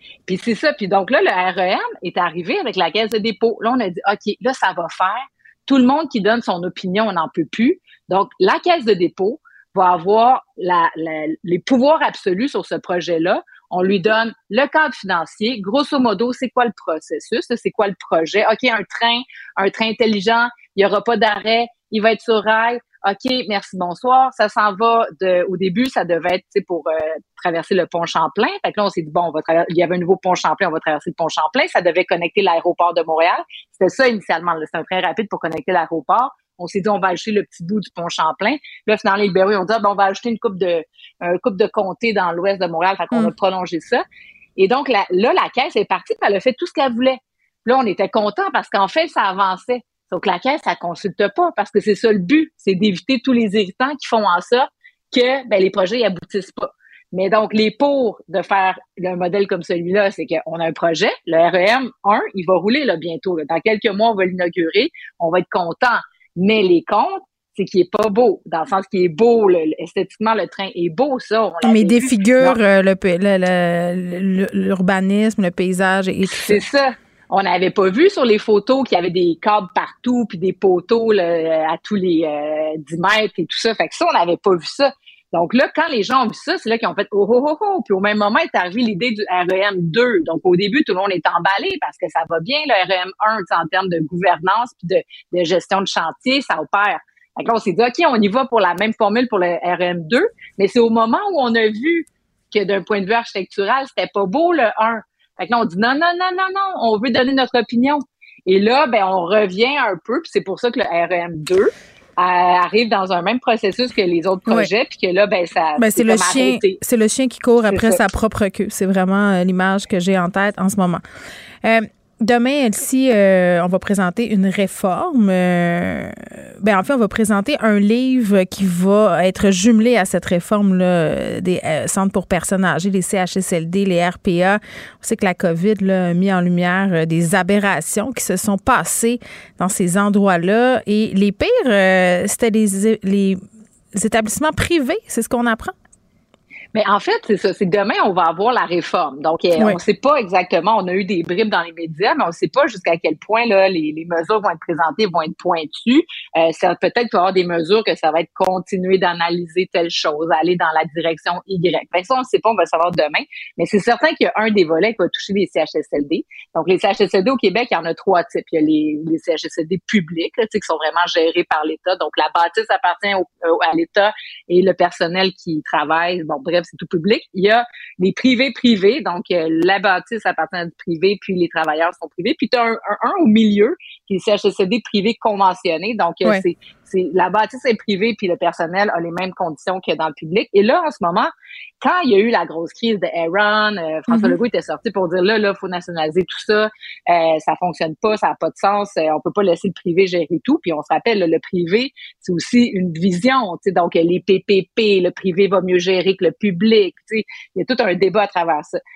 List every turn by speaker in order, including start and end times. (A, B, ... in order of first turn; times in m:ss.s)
0:00.3-0:44.0 A
0:44.6-1:12.6 A
1:11.6-1:16.6 B
1:16.3-1:56.8 A
1:55.8-2:01.0 B
1:57.6-1:58.0 A
2:01.6-2:23.4 B
2:23.9-2:25.7 B
2:26.7-3:28.8 A
3:14.1-3:14.4 B